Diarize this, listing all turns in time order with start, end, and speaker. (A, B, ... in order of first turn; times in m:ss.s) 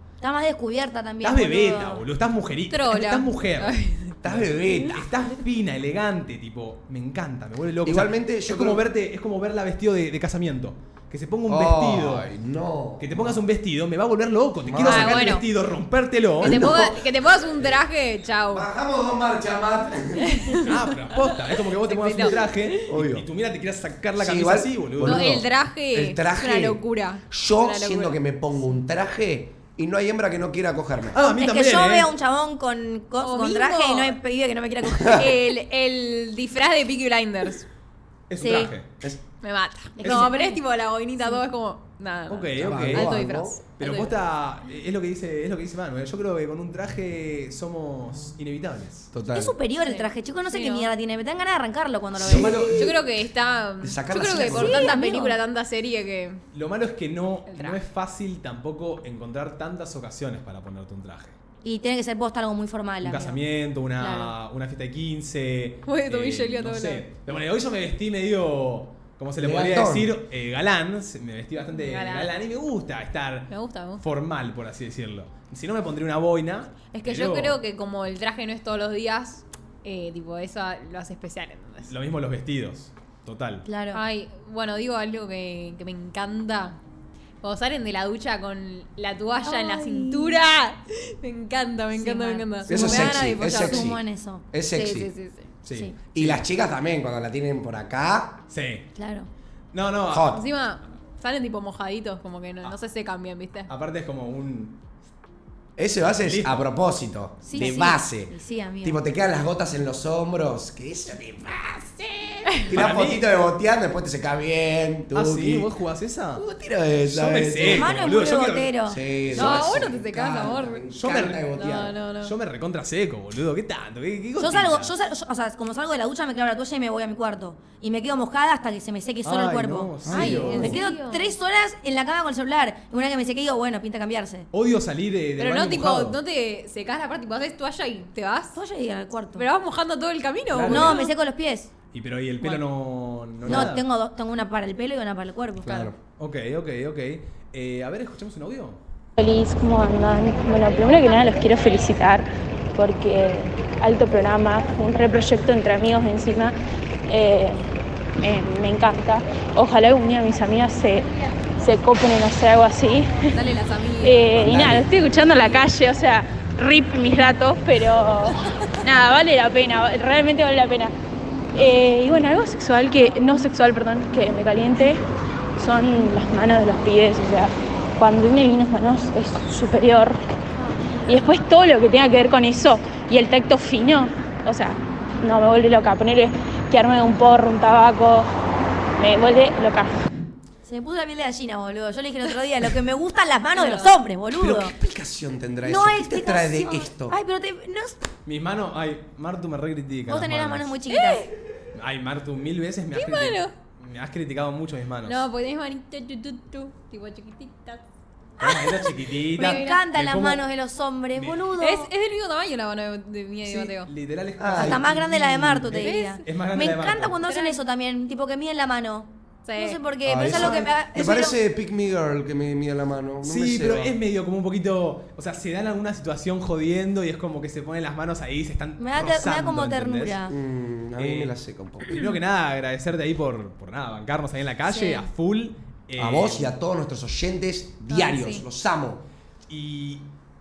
0:00.2-0:02.0 A
0:01.2-0:12.3 B
0:02.7-0:04.2 C
0:04.2-0:05.1 D
0:07.8-0:08.8 D
0:11.5-0:13.4 D
0:13.0-0:16.6 B
0:14.6-0:15.4 D
0:14.8-0:15.4 C
0:16.4-0:17.1 D
0:16.4-0:18.7 C
0:18.5-0:20.6 D
0:20.2-0:20.7 C
0:20.6-0:25.3 B
0:21.8-0:22.9 C
0:22.8-0:23.3 D
0:24.2-0:31.2 D
0:25.0-0:28.2 C
0:31.1-0:32.1 B
0:31.2-0:35.3 A
0:33.2-0:34.2 C
0:35.0-0:35.2 D
0:35.1-0:37.7 C
0:38.3-0:38.9 B
0:38.4-0:38.7 A
0:39.4-0:44.1 C
0:40.0-0:40.6 A
0:42.3-0:43.1 B
0:42.6-0:43.6 D
0:43.8-0:49.1 B
0:49.1-0:49.6 D
0:49.3-0:52.9 A
0:49.8-0:50.9 C
0:52.1-0:53.0 D
0:52.8-0:56.4 C
0:53.8-0:55.0 D
0:54.4-0:55.4 A
0:56.5-1:01.4 B
0:57.5-0:57.8 C
1:01.6-1:03.4 A
1:03.0-1:17.6 B
1:04.0-1:04.3 A
1:05.8-1:07.0 C
1:09.4-1:10.2 D
1:11.7-1:12.3 C
1:13.5-1:14.0 C
1:16.9-1:21.9 C
1:21.8-1:23.6 B
1:23.6-1:24.0 A
1:23.9-1:26.8 C
1:27.4-1:33.9 C
1:29.4-1:30.4 A
1:31.9-1:34.4 A
1:32.7-1:34.0 D
1:34.5-1:35.1 D
1:34.7-1:35.5 C
1:35.6-1:36.4 B
1:36.1-1:38.4 D
1:38.5-1:38.9 B
1:38.9-1:39.3 A
1:39.7-1:40.3 B
1:40.1-1:40.4 D
1:40.3-1:43.7 C
1:43.7-1:44.8 B
1:45.8-1:55.7 D
1:46.0-1:46.7 B
1:47.4-1:49.0 A
1:52.7-1:53.2 B
1:55.1-1:56.4 B
1:56.4-1:58.1 D
1:57.0-1:58.7 B
1:57.6-1:59.0 A
1:58.8-2:02.0 D
1:59.3-1:59.7 B
1:59.3-2:00.8 C
2:01.0-2:01.5 B
2:01.5-2:02.3 C
2:02.2-2:04.9 B
2:04.4-2:14.5 A
2:09.2-2:10.8 B
2:10.0-2:10.7 D
2:10.1-2:11.3 C
2:14.5-2:16.2 B
2:15.4-2:18.6 C
2:18.5-2:19.4 A
2:19.3-2:21.1 C
2:20.5-2:21.0 B
2:20.7-2:21.7 A
2:21.9-2:23.8 B
2:23.4-2:23.7 D
2:23.4-2:25.9 A
2:25.6-2:26.0 D
2:26.2-2:28.8 B
2:29.2-2:36.6 E
2:37.1-2:37.6 E
2:38.2-2:43.3 E
2:43.3-2:44.4 C
2:44.0-2:50.9 E
2:44.4-2:44.9 D
2:51.5-2:55.0 E
2:55.6-3:00.2 E
3:01.0-3:08.3 E
3:09.0-3:10.0 E
3:10.6-3:14.7 A
3:13.5-3:13.9 C
3:14.3-3:17.2 D
3:15.6-3:18.0 A
3:18.2-3:20.7 B
3:20.1-3:21.2 A
3:20.9-3:21.3 C
3:21.7-3:25.2 B
3:22.9-3:23.5 C
3:25.0-3:27.8 C
3:28.4-3:30.4 B
3:28.8-3:29.8 C
3:29.4-3:31.9 A
3:31.1-3:31.4 B
3:31.6-3:33.9 C
3:33.4-3:37.2 B
3:34.4-3:35.5 D
3:34.6-3:41.4 A
3:35.8-3:36.2 C
3:37.2-3:37.6 C
3:39.4-3:39.8 C
3:40.0-3:44.0 D
3:40.2-3:40.7 B
3:43.2-3:50.2 B
3:48.8-3:50.4 A
3:50.3-3:52.0 D
3:51.0-3:51.3 B
3:51.8-3:56.5 B
3:56.0-3:59.0 D
3:57.9-3:58.4 C
3:59.5-4:00.1 B